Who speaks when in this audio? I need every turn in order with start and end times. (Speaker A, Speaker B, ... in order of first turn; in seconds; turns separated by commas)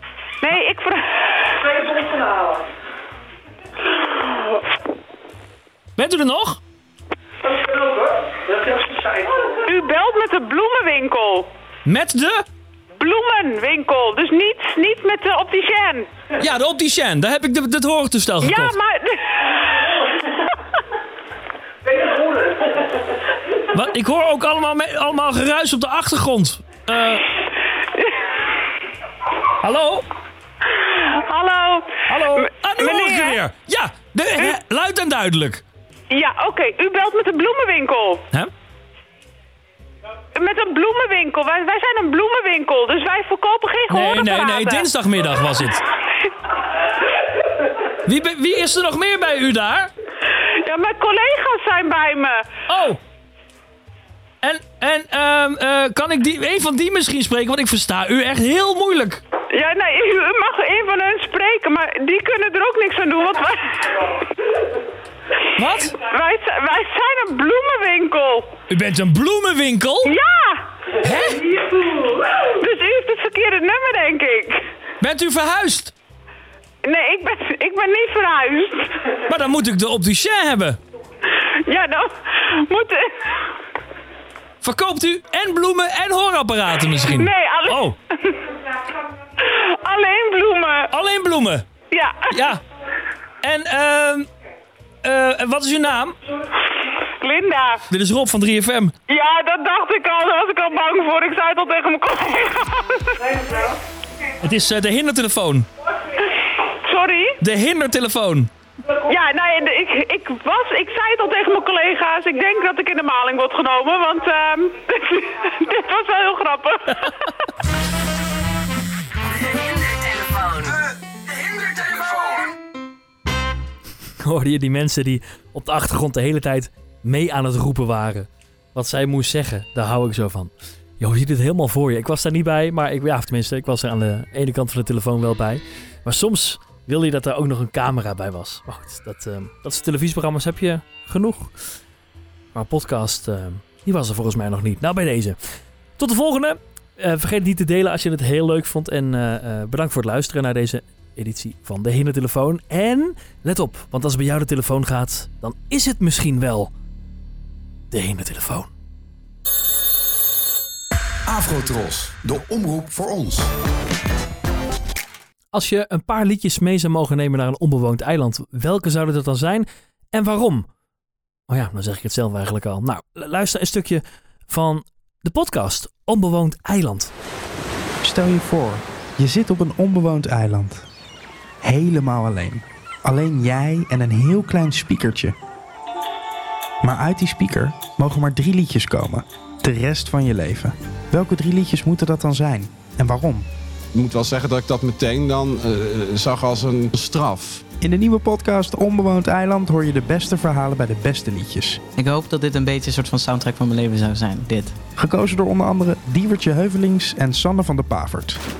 Speaker A: 0.4-1.4, Speaker B: 6.0-6.6, Speaker A: 9.4-11.5, Speaker B: 11.8-12.4, Speaker A: 12.9-16.1, Speaker B: 16.4-18.8, Speaker A: 18.4-19.5, Speaker B: 23.7-27.3, Speaker B: 29.6-30.1, Speaker A: 30.8-33.4, Speaker B: 32.1-35.6, Speaker A: 36.1-38.2, Speaker A: 40.3-44.9, Speaker B: 43.9-45.8, Speaker B: 48.0-49.9, Speaker A: 50.6-52.5, Speaker B: 52.7-53.0, Speaker B: 54.4-59.2, Speaker A: 59.5-64.1, Speaker B: 65.6-65.9, Speaker A: 66.0-68.5, Speaker B: 68.7-70.1, Speaker A: 70.0-70.6, Speaker B: 71.0-71.5, Speaker A: 72.4-74.6, Speaker B: 75.0-75.9, Speaker A: 76.8-79.0, Speaker B: 79.3-80.8, Speaker A: 81.4-83.1, Speaker B: 84.6-87.9, Speaker A: 87.1-88.5, Speaker A: 89.4-90.9, Speaker B: 90.9-91.6, Speaker A: 91.9-92.3, Speaker B: 92.3-92.6, Speaker B: 93.4-94.3, Speaker B: 95.0-96.2, Speaker A: 97.2-97.8, Speaker B: 97.9-98.9, Speaker A: 99.1-103.5, Speaker B: 104.4-105.7, Speaker A: 106.8-107.4, Speaker B: 107.4-108.5, Speaker A: 108.9-117.3, Speaker B: 119.9-120.7, Speaker B: 124.2-141.5, Speaker B: 142.5-145.4, Speaker B: 146.0-156.7, Speaker B: 157.9-158.7, Speaker C: 161.2-163.5, Speaker B: 165.5-170.7, Speaker B: 171.5-177.1, Speaker D: 178.0-180.8, Speaker D: 181.6-185.3, Speaker D: 186.8-193.5, Speaker E: 193.9-197.6, Speaker D: 197.8-201.8, Speaker F: 201.9-204.8, Speaker D: 205.0-208.4